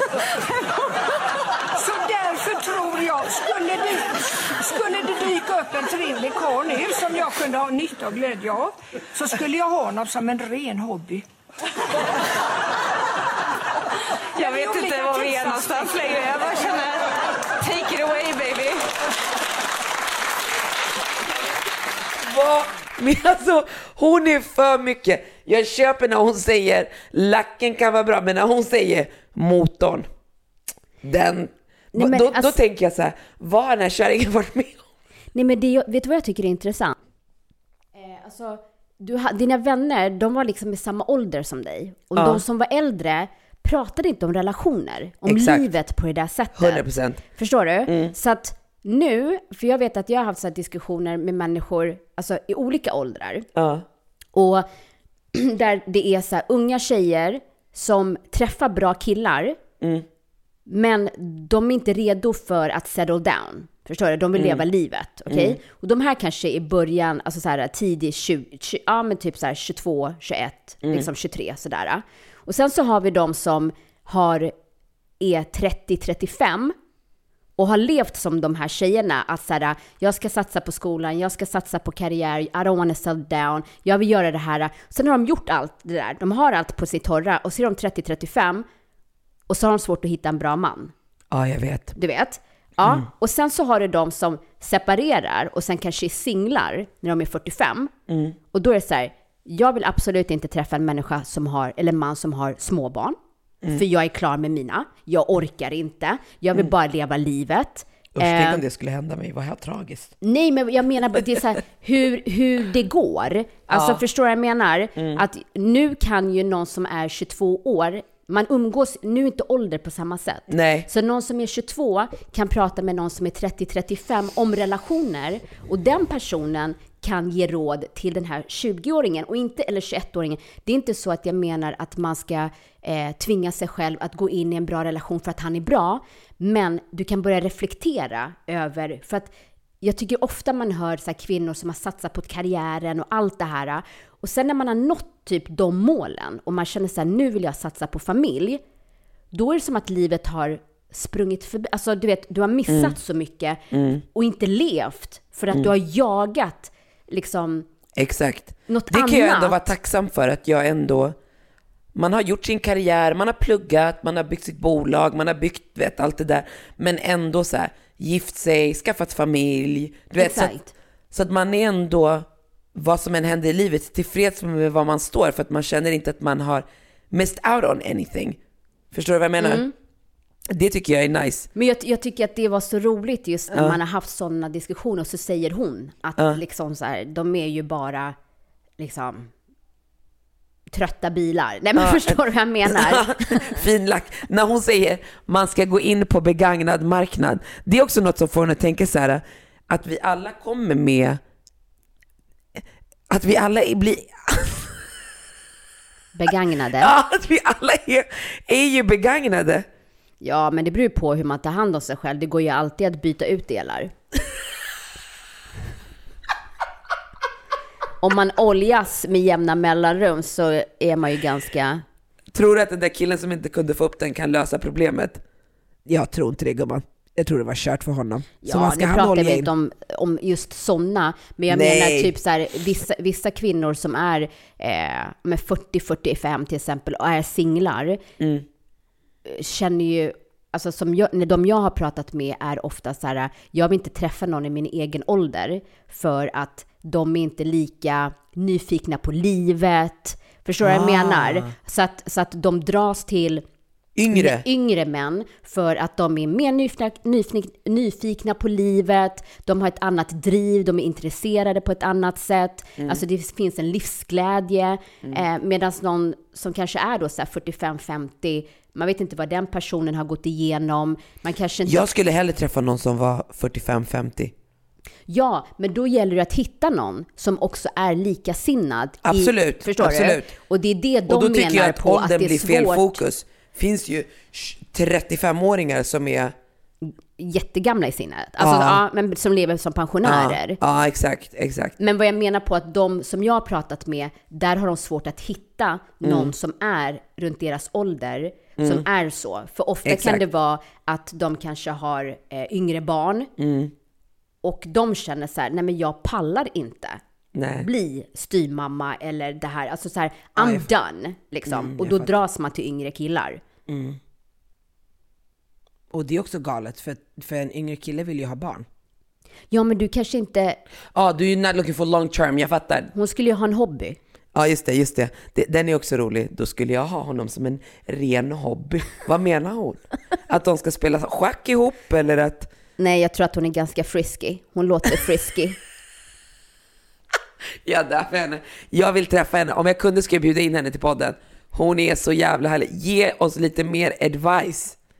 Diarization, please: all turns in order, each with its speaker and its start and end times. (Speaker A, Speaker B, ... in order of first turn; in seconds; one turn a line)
Speaker A: 0.3-0.9
Speaker A: 1.8-11.2
Speaker A: 14.3-16.9
Speaker B: 14.4-17.0
Speaker B: 17.6-18.8
Speaker C: 22.2-30.1
Speaker C: 31.0-34.8
Speaker D: 31.9-32.6
Speaker D: 35.3-36.9
Speaker D: 37.9-53.5
Speaker C: 42.2-42.4
Speaker C: 45.3-45.7
Speaker C: 46.5-47.2
Speaker C: 47.9-48.1
Speaker C: 53.5-53.8
Speaker D: 54.3-54.6
Speaker D: 55.3-59.6
Speaker C: 59.8-60.0
Speaker D: 60.7-74.5
Speaker C: 64.3-64.6
Speaker C: 65.3-65.6
Speaker D: 75.2-76.7
Speaker D: 77.6-88.6
Speaker D: 89.5-90.9
Speaker C: 91.3-91.9
Speaker D: 92.0-97.9
Speaker C: 98.1-98.3
Speaker D: 98.5-103.2
Speaker D: 103.7-108.6
Speaker C: 108.2-110.1
Speaker D: 110.2-139.3
Speaker C: 113.7-114.0
Speaker C: 115.0-115.2
Speaker C: 120.5-120.9
Speaker D: 139.8-148.6
Speaker D: 149.3-153.6
Speaker C: 152.7-152.9
Speaker C: 153.7-154.0
Speaker D: 154.1-157.7
Speaker C: 158.0-161.1
Speaker D: 158.7-159.7
Speaker C: 161.9-170.5
Speaker D: 170.2-170.7
Speaker C: 171.1-178.4
Speaker C: 178.9-179.6
Speaker D: 179.4-179.7
Speaker C: 180.5-181.5
Speaker D: 181.5-188.2
Speaker C: 183.5-183.8
Speaker D: 188.8-189.3
Speaker D: 190.7-193.6
Speaker C: 191.8-201.2
Speaker C: 203.1-204.8
Speaker D: 206.1-206.9
Speaker C: 206.8-209.6
Speaker D: 210.2-213.9
Speaker D: 218.0-221.8
Speaker C: 222.3-225.2
Speaker E: 225.8-229.5
Speaker D: 228.4-238.0
Speaker C: 231.5-232.1
Speaker C: 238.2-238.4
Speaker D: 239.2-253.4
Speaker E: 250.6-251.5
Speaker C: 253.9-254.4
Speaker D: 254.1-271.9
Speaker C: 271.6-274.3
Speaker D: 275.1-283.0
Speaker C: 279.1-280.3
Speaker C: 281.1-286.3
Speaker D: 286.8-290.6
Speaker C: 288.4-288.8
Speaker C: 290.0-291.7
Speaker D: 291.8-303.3
Speaker C: 296.0-296.3
Speaker C: 298.6-298.8
Speaker C: 299.8-300.2
Speaker C: 303.4-303.7
Speaker D: 304.4-307.0
Speaker C: 307.3-307.7
Speaker D: 307.6-313.4
Speaker E: 310.4-310.7
Speaker E: 311.5-312.1
Speaker E: 313.7-314.0
Speaker E: 315.9-318.6
Speaker D: 319.5-320.6
Speaker C: 320.9-322.9
Speaker D: 322.9-324.0
Speaker C: 324.3-332.5
Speaker D: 332.8-335.6
Speaker C: 337.6-344.8